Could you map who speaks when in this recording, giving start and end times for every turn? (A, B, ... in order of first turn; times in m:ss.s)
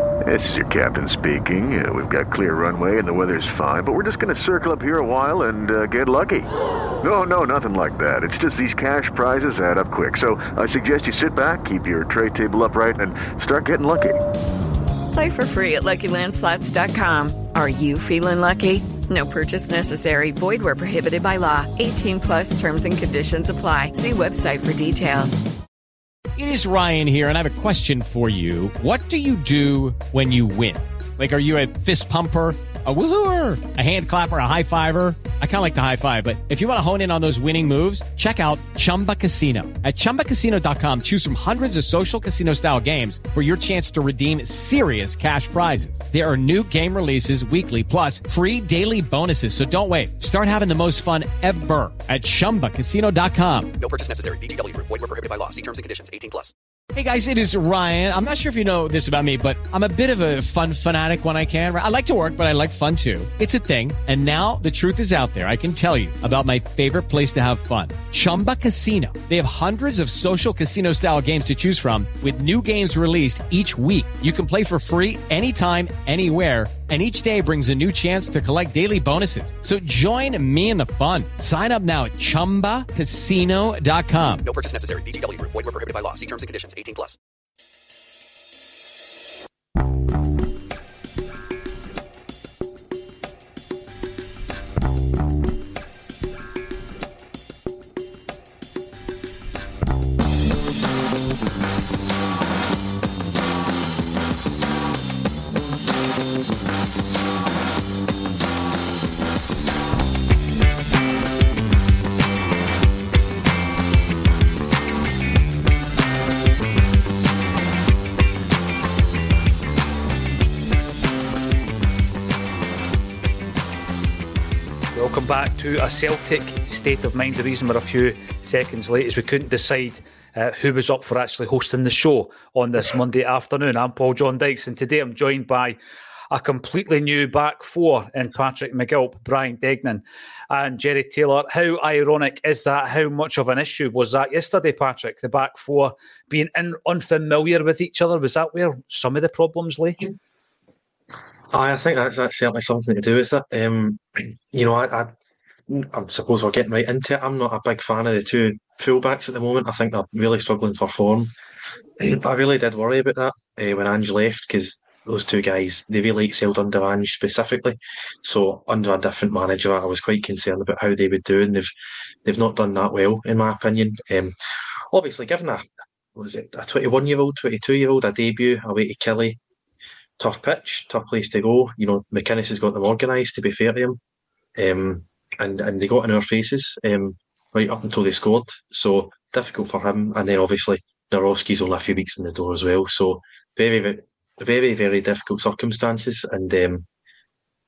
0:00.2-0:06.5 A
0:07.0-0:14.2 A
0:15.1-0:25.4 B
0:26.4-0:53.7 C
0:53.8-0:56.5 D
0:56.9-1:24.4 C
1:24.4-1:27.2 D
2:04.9-2:15.8 E
2:16.3-2:30.0 E
2:31.5-2:35.1 F
2:35.7-2:41.3 F
2:42.0-2:51.7 F
2:52.2-2:54.3 F
2:54.9-2:59.4 F
3:00.2-3:04.0 F
3:04.6-3:16.8 F